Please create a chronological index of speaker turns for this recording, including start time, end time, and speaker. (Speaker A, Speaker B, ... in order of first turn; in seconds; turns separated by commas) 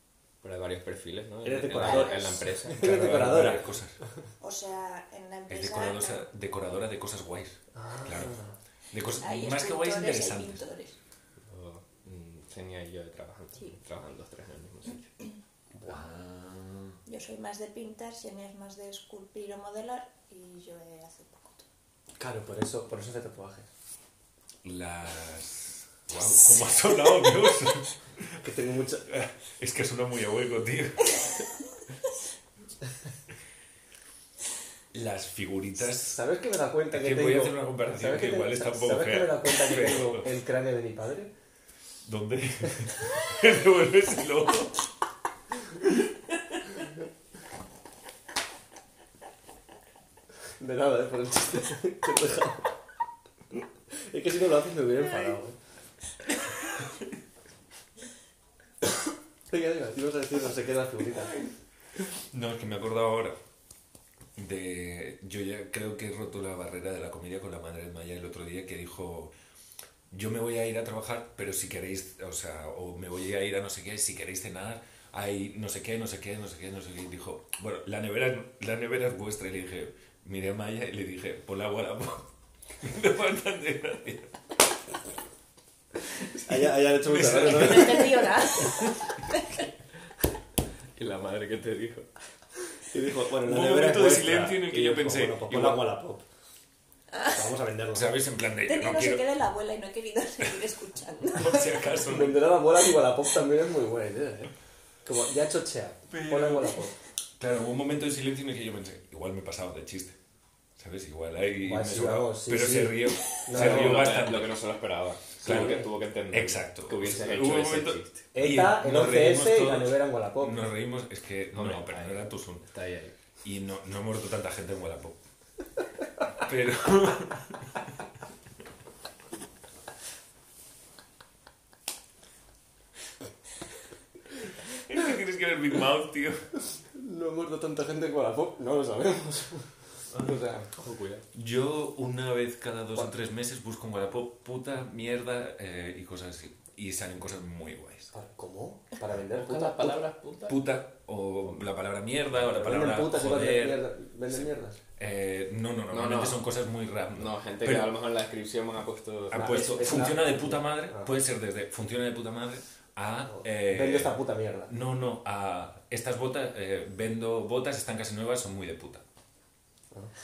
Speaker A: 0.4-3.6, Speaker B: 1.4-3.7, Speaker C: 1.8-2.3, Speaker D: 2.8-4.0, Speaker C: 4.4-6.3, Speaker D: 5.5-8.4, Speaker B: 7.7-8.6, Speaker D: 8.9-10.6, Speaker C: 9.2-10.9, Speaker A: 11.5-15.1, Speaker B: 15.7-16.0, Speaker D: 15.8-17.0, Speaker C: 17.1-21.6, Speaker B: 22.2-23.7, Speaker D: 24.6-28.4, Speaker B: 28.4-29.1, Speaker D: 29.1-31.2, Speaker D: 34.9-36.2, Speaker B: 35.9-41.3, Speaker D: 36.9-40.3, Speaker D: 42.0-44.8, Speaker B: 50.6-52.7, Speaker B: 53.9-55.6, Speaker B: 59.5-61.5, Speaker D: 62.3-63.4, Speaker D: 64.3-69.3, Speaker D: 70.1-84.4, Speaker B: 86.3-88.3, Speaker D: 86.5-89.1, Speaker C: 87.3-89.6, Speaker A: 91.0-92.1, Speaker B: 92.9-96.2, Speaker D: 93.4-95.9, Speaker C: 97.1-97.4, Speaker B: 97.3-98.1, Speaker D: 97.9-99.2, Speaker C: 98.6-101.6, Speaker D: 101.3-102.4, Speaker B: 102.0-104.5, Speaker B: 105.0-106.9, Speaker D: 106.1-106.8, Speaker D: 107.4-110.2, Speaker D: 110.8-114.6, Speaker B: 111.6-114.2, Speaker A: 113.5-118.2, Speaker B: 115.4-115.9, Speaker D: 115.4-122.7, Speaker B: 118.3-120.6, Speaker A: 121.5-123.1, Speaker D: 123.4-125.2, Speaker D: 126.3-127.8, Speaker D: 134.7-136.4, Speaker B: 136.9-140.7, Speaker A: 140.7-141.3, Speaker D: 141.3-148.1, Speaker B: 148.1-150.0, Speaker A: 149.3-150.6, Speaker D: 150.5-153.9, Speaker B: 152.4-154.8, Speaker D: 155.0-157.9, Speaker A: 155.9-156.4, Speaker A: 157.1-159.4, Speaker D: 159.3-164.1, Speaker B: 159.3-161.1, Speaker B: 163.3-164.7, Speaker D: 164.7-169.0